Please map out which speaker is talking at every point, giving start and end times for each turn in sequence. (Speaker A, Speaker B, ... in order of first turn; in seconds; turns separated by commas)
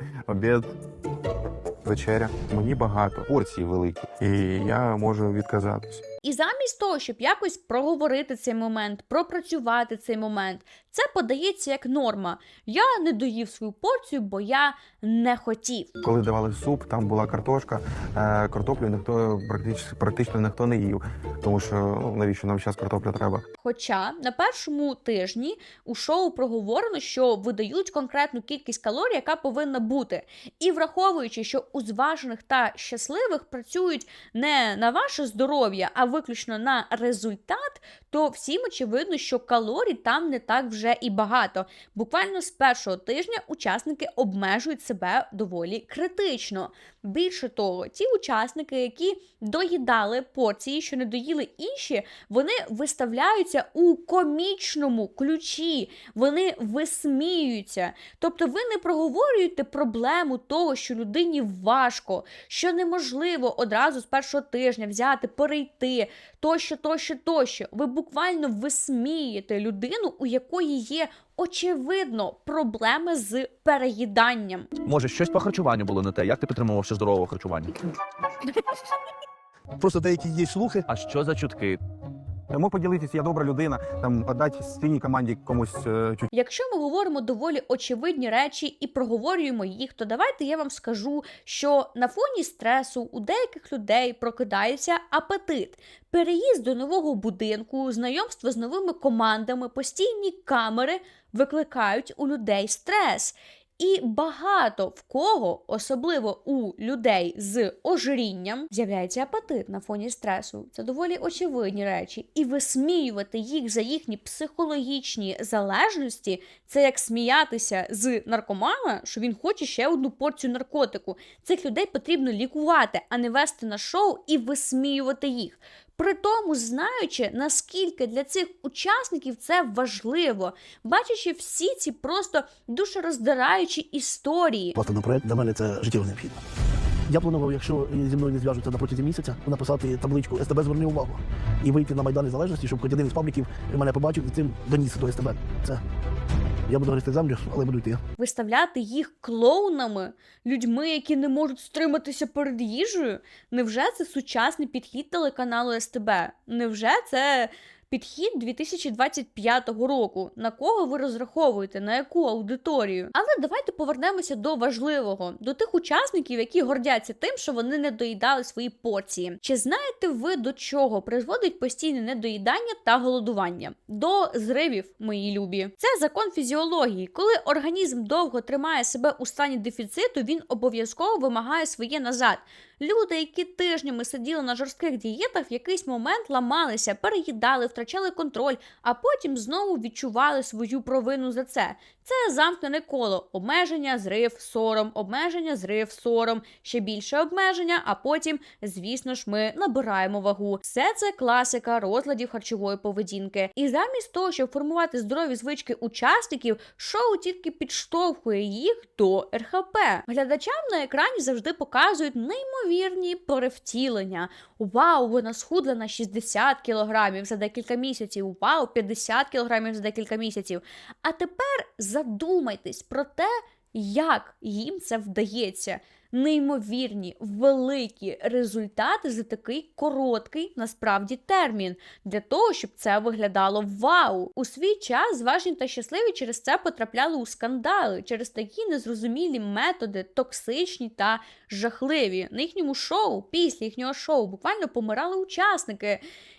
Speaker A: 0.3-0.7, Speaker A: 1.9-6.0, Speaker B: 6.2-15.9, Speaker A: 16.0-23.4, Speaker B: 23.6-74.7, Speaker C: 74.8-77.8, Speaker D: 79.8-80.9, Speaker C: 80.9-81.8, Speaker A: 82.5-86.3, Speaker B: 86.3-134.7, Speaker D: 134.8-136.4, Speaker D: 137.1-145.8, Speaker D: 146.7-148.0, Speaker B: 148.2-246.0